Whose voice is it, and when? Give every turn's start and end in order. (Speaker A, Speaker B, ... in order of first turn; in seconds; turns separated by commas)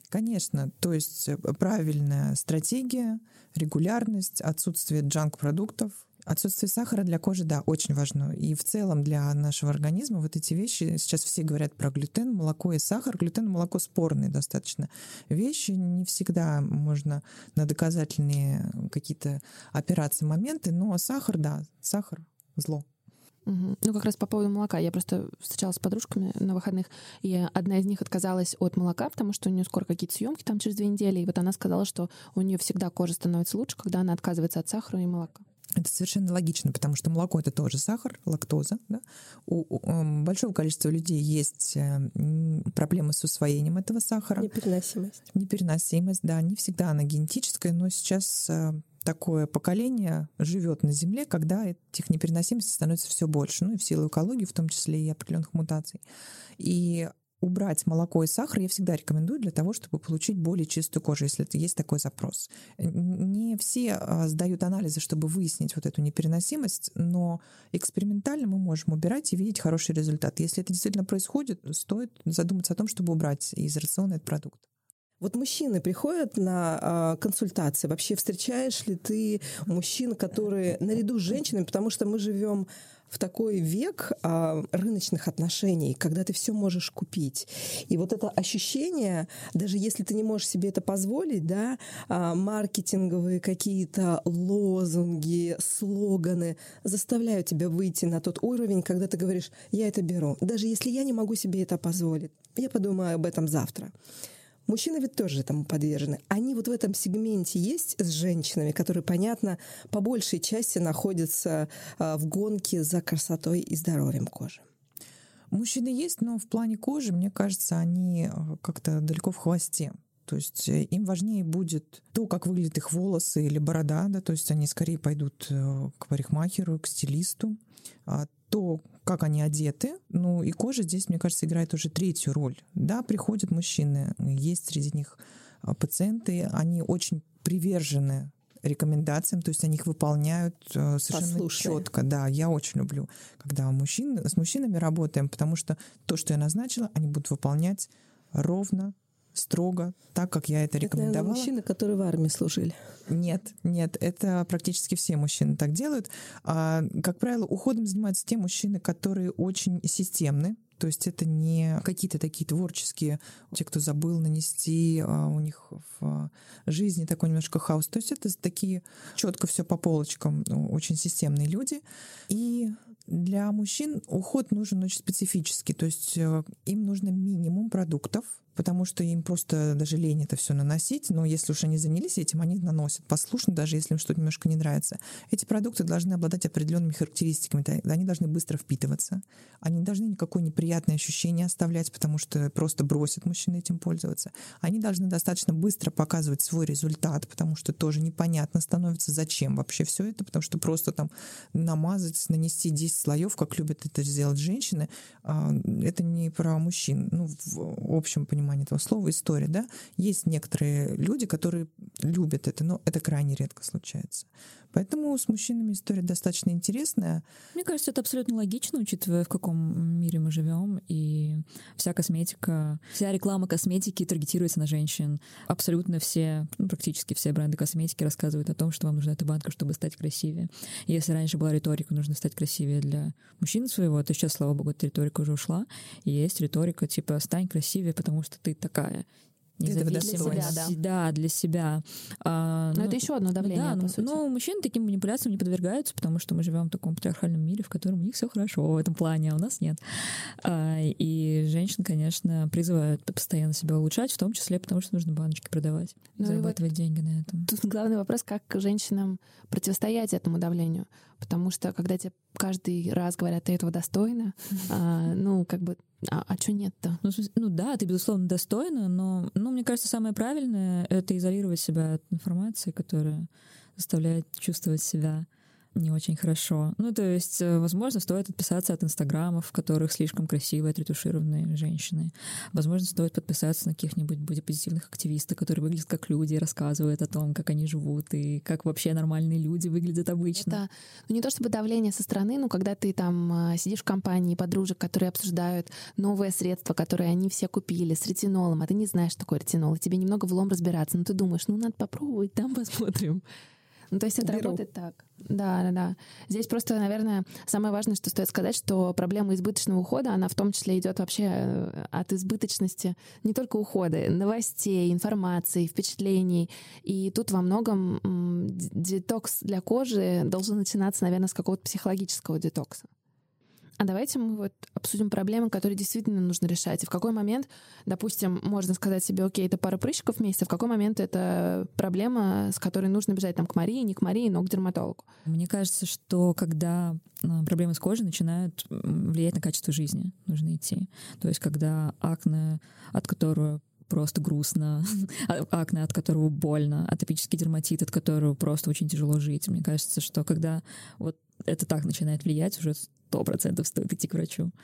Speaker A: 0.1-22.9, Speaker B: 23.4-35.4, Speaker A: 35.8-44.5, Speaker C: 44.4-45.2, Speaker A: 45.3-56.0, Speaker A: 56.6-74.6, Speaker C: 75.2-103.9, Speaker C: 104.7-114.6, Speaker A: 115.5-151.5, Speaker C: 141.1-141.8, Speaker C: 150.8-152.7, Speaker A: 153.1-217.2, Speaker D: 217.5-239.1, Speaker D: 239.6-249.8, Speaker A: 239.6-240.6, Speaker B: 239.9-240.7, Speaker B: 242.7-244.2, Speaker D: 250.4-257.5, Speaker B: 256.2-256.6, Speaker B: 257.5-267.0, Speaker D: 267.0-290.6, Speaker B: 290.3-303.2, Speaker B: 303.9-322.9, Speaker C: 304.2-304.6, Speaker B: 323.8-335.1, Speaker D: 335.2-354.5